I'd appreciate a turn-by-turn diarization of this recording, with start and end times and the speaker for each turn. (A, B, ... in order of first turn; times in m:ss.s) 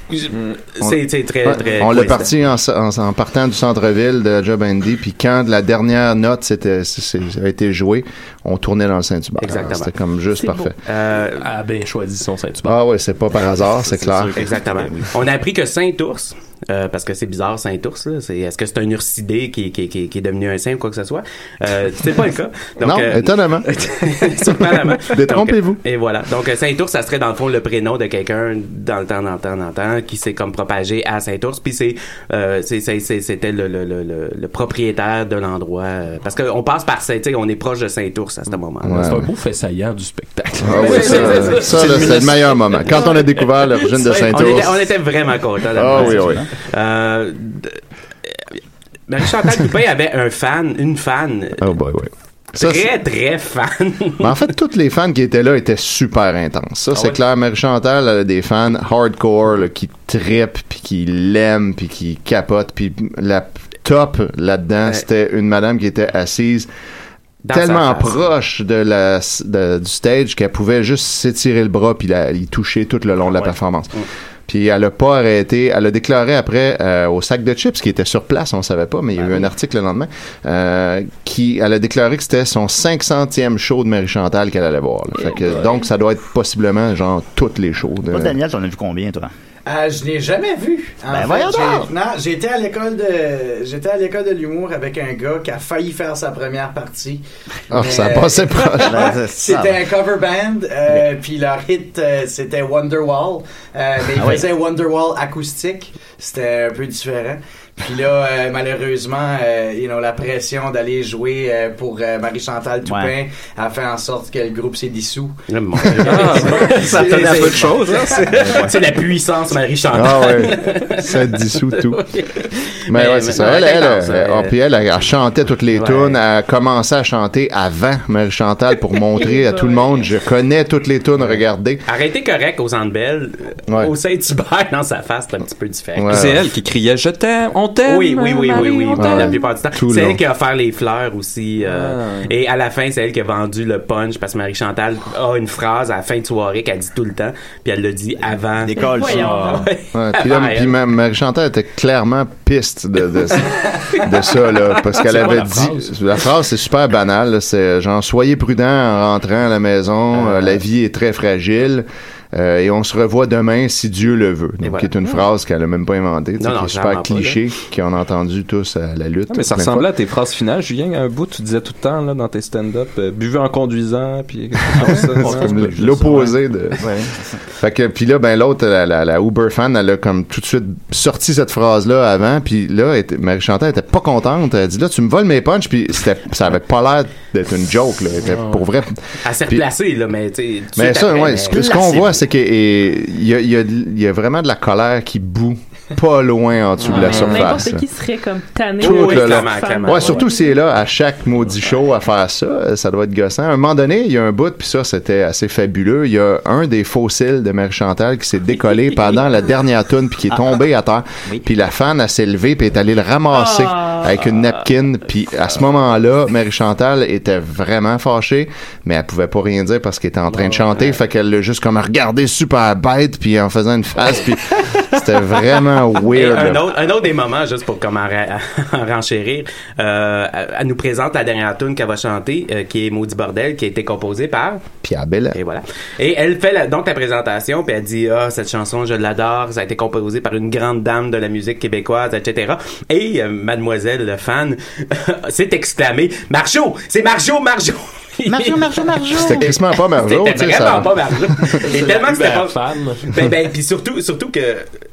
0:00.1-0:02.3 A
0:00.3-0:00.5 B
0:00.8-0:10.7 C
0:09.4-0:09.9 A
0:10.8-0:11.5 A
0:11.4-0:12.8 D
0:12.6-0:14.5 C
0:13.8-0:15.1 E
0:14.3-0:39.1 A
0:22.8-0:23.7 C
0:24.7-0:25.8 C
0:38.8-0:39.3 C
0:38.9-0:43.0 D
0:40.6-0:44.9 C
0:40.7-0:42.3 A
0:44.2-0:48.5 A
0:45.7-0:46.4 C
0:45.9-0:46.5 E
0:49.1-0:51.7 A
0:51.6-0:52.9 C
0:52.6-0:54.4 A
0:54.2-1:06.7 C
1:07.4-1:08.2 A
1:07.5-1:13.9 C
1:13.3-1:14.0 A
1:14.5-1:28.4 C
1:19.2-1:19.5 E
1:28.1-1:29.3 E
1:29.6-1:55.4 F
1:31.1-1:31.9 E
1:37.7-1:39.2 C
1:38.8-1:39.8 E
1:44.1-1:44.5 E
1:52.8-1:53.1 E
1:55.5-2:04.5 A
1:56.0-1:58.6 B
1:56.0-1:58.2 F
1:58.3-1:58.7 E
1:59.9-2:02.0 C
2:02.9-2:11.8 C
2:05.7-2:06.2 A
2:09.2-2:09.9 G
2:11.2-2:16.4 A
2:16.0-2:16.4 C
2:16.1-2:18.7 B
2:17.8-2:30.7 A
2:18.1-2:19.5 G
2:19.0-2:20.2 C
2:21.6-2:22.3 B
2:28.6-2:29.6 E
2:28.8-2:29.6 G
2:29.2-2:29.6 D
2:29.9-2:49.9 C
2:34.9-2:35.9 D
2:44.6-2:44.9 A
2:46.4-2:47.4 A
2:49.3-2:56.1 B
2:54.8-2:56.2 E
2:54.8-2:56.8 C
2:56.8-2:57.4 E
2:57.6-3:09.6 C
3:08.3-3:08.6 D
3:09.2-3:12.0 A
3:10.8-3:17.9 C
3:11.5-3:12.1 E
3:16.8-3:17.2 A
3:16.9-3:17.4 B
3:17.2-3:20.5 G
3:18.8-3:20.3 A
3:18.8-3:46.7 C
3:33.3-3:34.0 G
3:46.1-3:54.6 A
3:54.8-3:55.4 C
3:55.3-4:14.8 A
4:08.3-4:09.5 E
4:09.1-4:11.6 C
4:11.6-4:13.2 D